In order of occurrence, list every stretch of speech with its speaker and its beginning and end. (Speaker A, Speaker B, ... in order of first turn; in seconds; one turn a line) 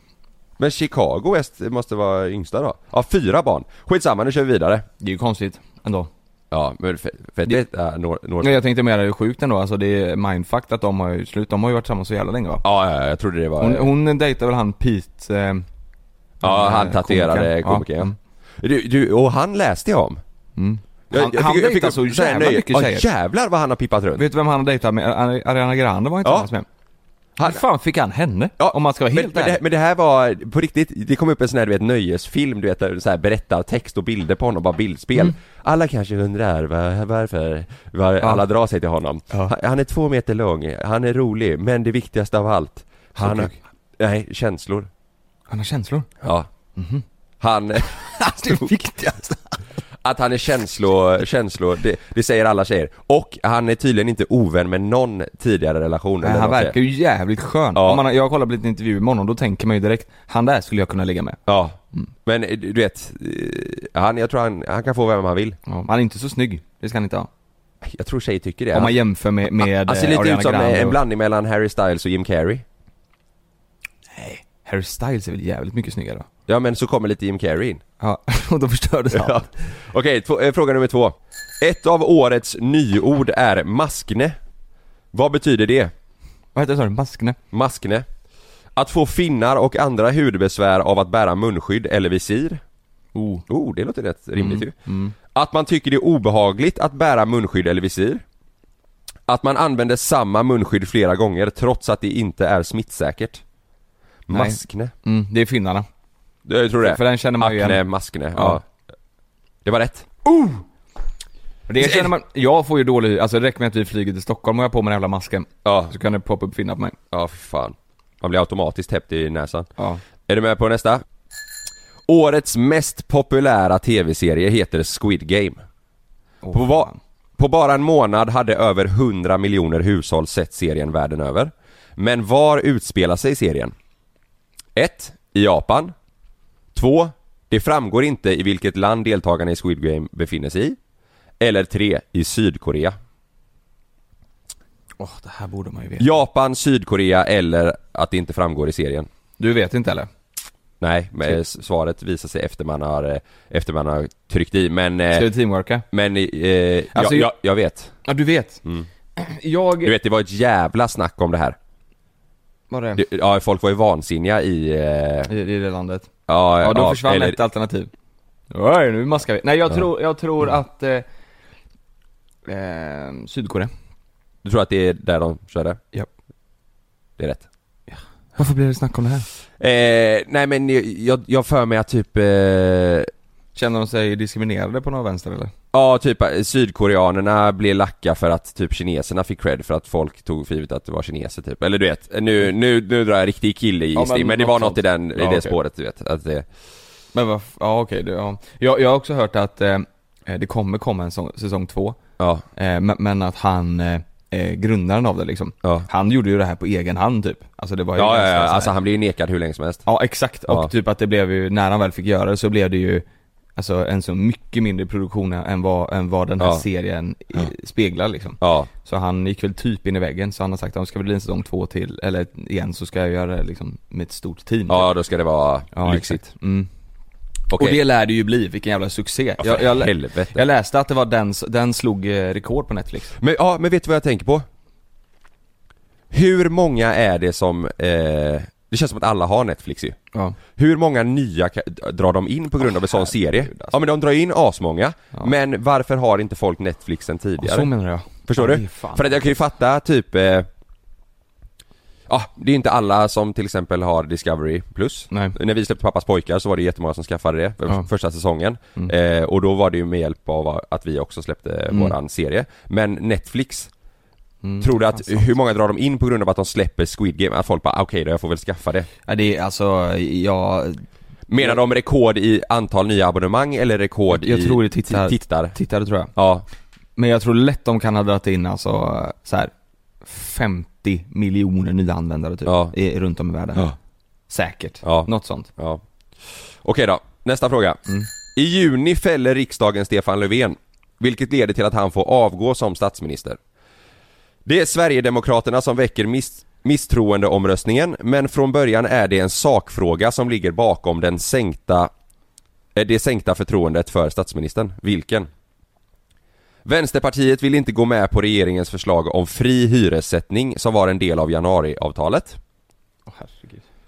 Speaker A: 0.6-4.8
Speaker B: 5.0-6.1
Speaker A: 6.5-8.6
Speaker B: 8.4-12.6
Speaker A: 12.6-13.9
Speaker B: 13.6-15.6
Speaker B: 16.4-18.1
Speaker A: 16.4-20.2
Speaker B: 20.6-23.1
Speaker A: 21.1-24.2
Speaker B: 24.2-26.7
Speaker A: 26.2-26.5
Speaker B: 27.4-29.6
Speaker A: 28.6-44.9
Speaker B: 43.2-43.5
Speaker B: 45.5-46.1
Speaker A: 46.2-46.5
Speaker B: 46.8-47.0
Speaker A: 47.4-47.9
Speaker B: 47.9-49.6
Speaker A: 48.4-48.7
Speaker A: 50.0-56.8
Speaker B: 56.2-61.4
Speaker A: 57.8-58.0
Speaker A: 61.5-65.6
Speaker B: 65.7-67.3
Speaker A: 67.8-68.9
Speaker B: 68.7-71.0
Speaker A: 69.5-72.6
Speaker B: 74.1-76.3
Speaker A: 76.5-77.8
Speaker B: 78.0-79.5
Speaker A: 79.1-84.4
Speaker A: 85.1-85.9
Speaker B: 86.5-87.4
Speaker A: 87.5-88.0
Speaker A: 88.8-92.6
Speaker B: 93.1-93.5
Speaker A: 93.5-94.7
Speaker B: 94.3-95.1
Speaker A: 95.3-98.2
Speaker A: 99.3-103.4
Speaker A: 104.3-104.9
Speaker B: 104.3-105.8
Speaker A: 106.5-108.6
Speaker B: 106.8-107.8
Speaker B: 108.3-108.6
Speaker A: 109.6-110.1
Speaker B: 110.2-110.6
Speaker B: 111.7-117.0
Speaker A: 111.8-112.1
Speaker A: 115.6-115.9
Speaker A: 117.1-119.7
Speaker A: 120.3-121.0
Speaker A: 122.1-125.6
Speaker B: 126.4-127.0
Speaker A: 126.5-133.7
Speaker A: 134.7-135.9
Speaker A: 136.7-140.8
Speaker A: 141.4-142.9
Speaker B: 145.0-146.1
Speaker A: 146.0-149.1
Speaker B: 149.4-150.1
Speaker A: 150.8-155.3
Speaker B: 155.1-155.8
Speaker A: 155.9-157.9
Speaker B: 156.9-157.3
Speaker B: 158.0-158.6
Speaker B: 159.2-159.9
Speaker A: 159.8-161.6
Speaker B: 162.7-163.0
Speaker A: 162.9-165.3
Speaker B: 165.3-166.1
Speaker A: 166.3-167.4
Speaker B: 166.6-167.9
Speaker B: 168.5-171.0
Speaker B: 172.4-173.7
Speaker A: 174.4-175.8
Speaker A: 177.2-177.4
Speaker B: 177.9-179.3
Speaker A: 179.6-183.1
Speaker B: 183.5-185.5
Speaker A: 185.7-196.5
Speaker B: 193.9-195.6
Speaker B: 197.1-202.0
Speaker A: 202.2-202.4
Speaker B: 202.6-208.7
Speaker A: 207.9-209.8
Speaker B: 209.8-213.0
Speaker B: 213.6-224.9
Speaker A: 216.4-216.6
Speaker A: 218.4-218.7
Speaker A: 224.7-226.3
Speaker B: 225.7-226.7
Speaker A: 227.5-227.8
Speaker B: 227.5-233.1
Speaker A: 229.4-230.4
Speaker A: 233.2-234.4
Speaker A: 236.1-240.0
Speaker A: 240.5-247.7
Speaker B: 242.6-243.8
Speaker B: 247.4-249.4
Speaker A: 248.3-250.5
Speaker A: 252.1-263.7
Speaker B: 255.1-255.3
Speaker B: 264.4-265.3
Speaker A: 264.6-268.9
Speaker B: 269.1-270.8
Speaker A: 271.3-275.6
Speaker B: 274.1-276.1
Speaker A: 276.1-276.4
Speaker B: 276.9-279.5
Speaker B: 280.0-283.7
Speaker A: 282.4-282.7
Speaker B: 284.3-285.5
Speaker A: 284.8-285.8
Speaker A: 286.6-287.8
Speaker A: 288.3-293.4
Speaker A: 294.4-301.9
Speaker A: 302.7-305.3
Speaker A: 306.6-312.4
Speaker B: 313.1-313.6